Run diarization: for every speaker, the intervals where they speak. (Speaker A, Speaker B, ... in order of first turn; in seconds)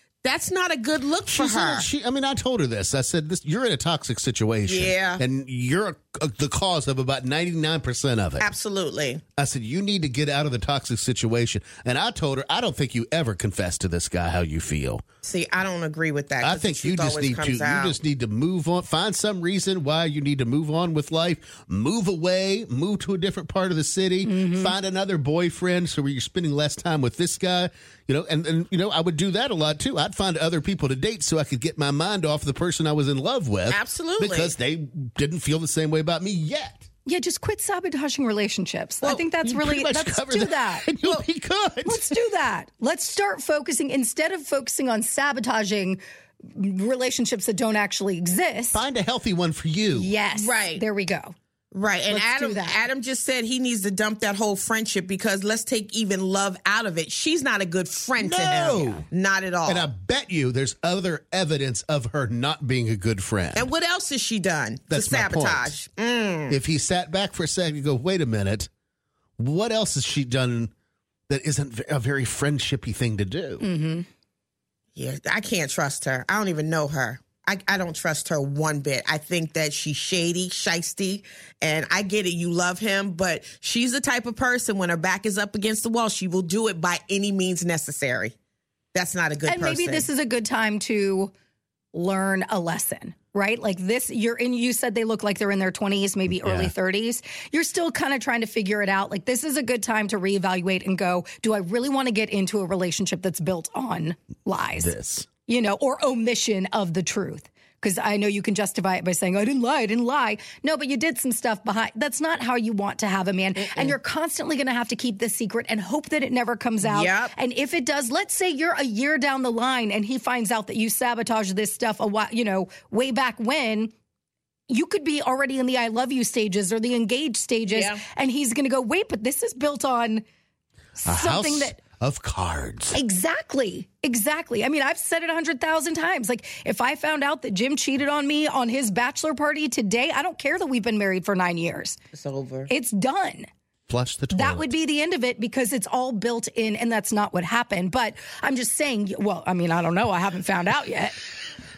Speaker A: 0.2-1.9, 4.7-5.2, 8.4-9.2, 15.2-18.0, 33.7-34.5, 50.3-50.8, 51.7-59.9, 63.5-66.5, 75.0-88.3, 88.9-90.1, 113.5-114.0, 116.8-117.3, 127.7-128.0, 142.1-142.7
Speaker B: 1.3-8.5, 9.3-15.0, 16.4-36.9, 39.4-42.2, 48.7-50.1, 58.2-59.0, 59.6-63.7, 64.9-65.7, 66.5-68.7, 69.4-70.7, 71.3-73.6, 96.3-96.7, 104.7-105.3, 131.0-133.0, 143.9-144.7
Speaker C: 24.2-24.7, 37.0-40.9, 41.8-48.8, 49.9-51.3, 52.1-52.8, 73.6-74.0, 89.5-91.3, 91.9-104.9, 105.5-123.9, 124.7-130.2, 131.0-131.8, 132.9-142.0, 142.7-143.5, 144.3-151.2